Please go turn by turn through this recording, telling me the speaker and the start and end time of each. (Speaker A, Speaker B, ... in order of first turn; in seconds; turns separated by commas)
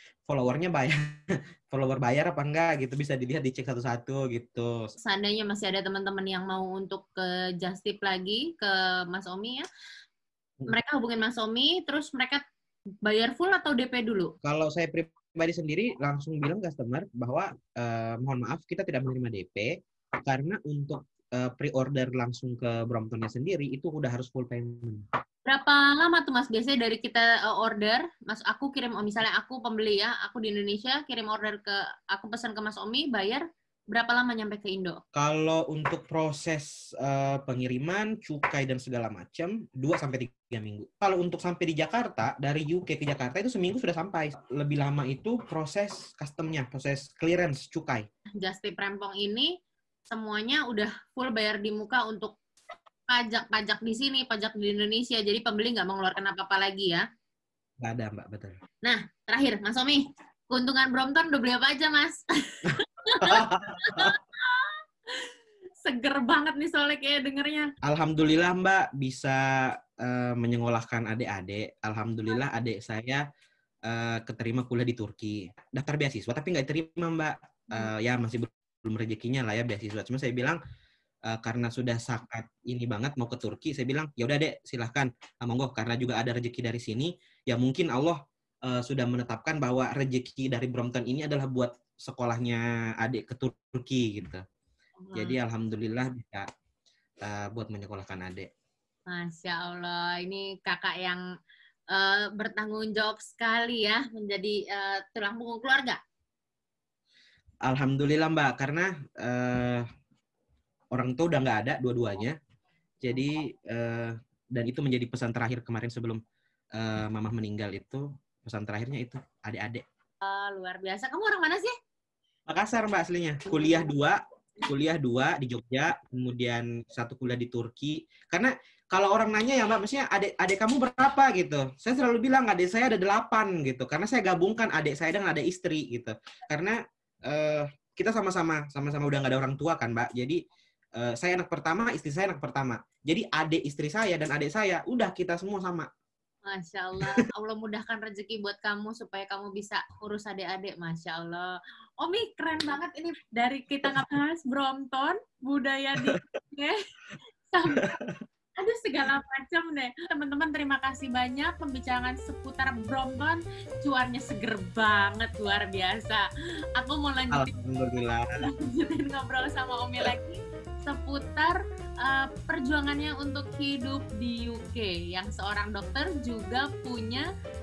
Speaker A: 0.2-4.9, Speaker B: 5.0-9.6, Speaker B: 10.7-12.4, Speaker B: 13.0-14.3, Speaker A: 14.4-25.1, Speaker B: 25.4-35.0, Speaker A: 35.1-48.1, Speaker B: 48.4-49.5, Speaker B: 50.1-52.4, Speaker B: 53.1-57.0, Speaker A: 57.8-58.5, Speaker B: 58.8-65.3, Speaker A: 63.2-64.1, Speaker B: 65.8-67.7, Speaker A: 67.8-73.2, Speaker A: 73.8-80.6, Speaker A: 81.3-94.4, Speaker B: 95.0-95.4, Speaker A: 95.1-96.5, Speaker A: 97.2-98.5, Speaker B: 99.1-101.2, Speaker B: 101.9-106.0, Speaker A: 107.6-109.9, Speaker A: 110.9-112.3, Speaker A: 113.0-116.2, Speaker A: 116.7-119.8, Speaker B: 120.2-121.7, Speaker A: 122.5-140.4, Speaker A: 141.0-145.9, Speaker B: 146.4-156.8, Speaker B: 157.5-157.9, Speaker A: 157.7-158.2, Speaker B: 158.6-167.5, Speaker A: 167.3-168.3, Speaker B: 168.4-177.3